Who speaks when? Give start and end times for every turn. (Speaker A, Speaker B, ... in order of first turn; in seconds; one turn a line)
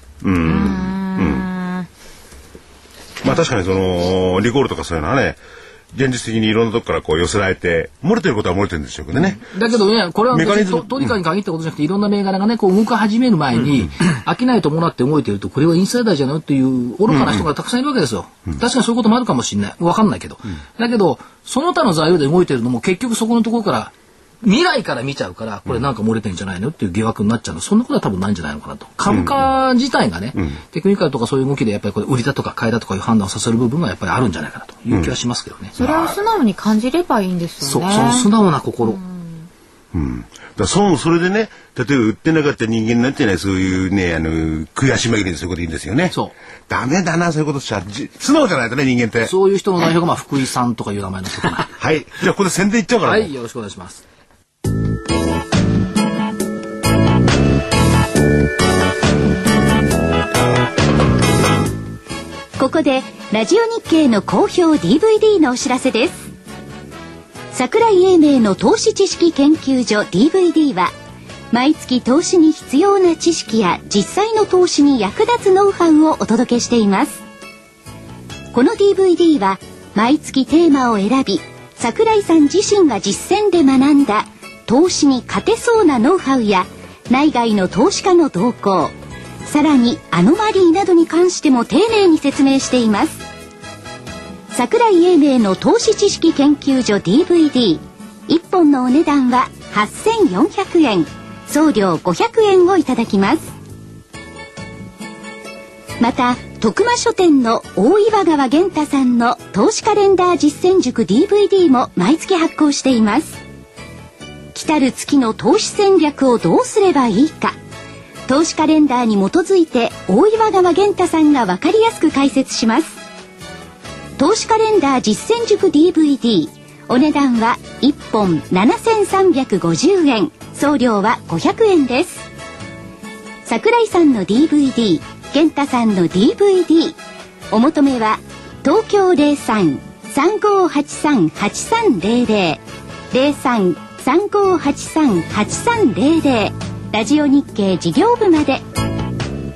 Speaker A: 0.2-1.5
Speaker B: 0.4-1.9
Speaker A: 3.2-5.4
Speaker A: 5.9-9.4
Speaker C: 9.1-35.8
Speaker A: 10.3-11.2
Speaker A: 17.1-17.5
Speaker A: 29.1-29.4
Speaker B: 35.8-38.3
Speaker A: 35.8-36.2
Speaker C: 37.6-39.0
Speaker B: 38.9-39.5
Speaker A: 39.9-46.2
Speaker A: 46.7-49.3
Speaker C: 49.2-51.7
Speaker A: 51.8-53.3
Speaker C: 53.0-54.0
Speaker D: 62.6-66.3
Speaker D: 67.5-70.9
Speaker D: 71.5-77.2
Speaker D: 78.5-88.9
Speaker D: 89.5-93.2
Speaker D: 94.5-103.5
Speaker D: 106.0-113.4
Speaker D: 114.5-117.6
Speaker D: 118.3-123.0
Speaker D: 124.2-132.3
Speaker D: 133.5-137.0
Speaker D: 137.5-148.6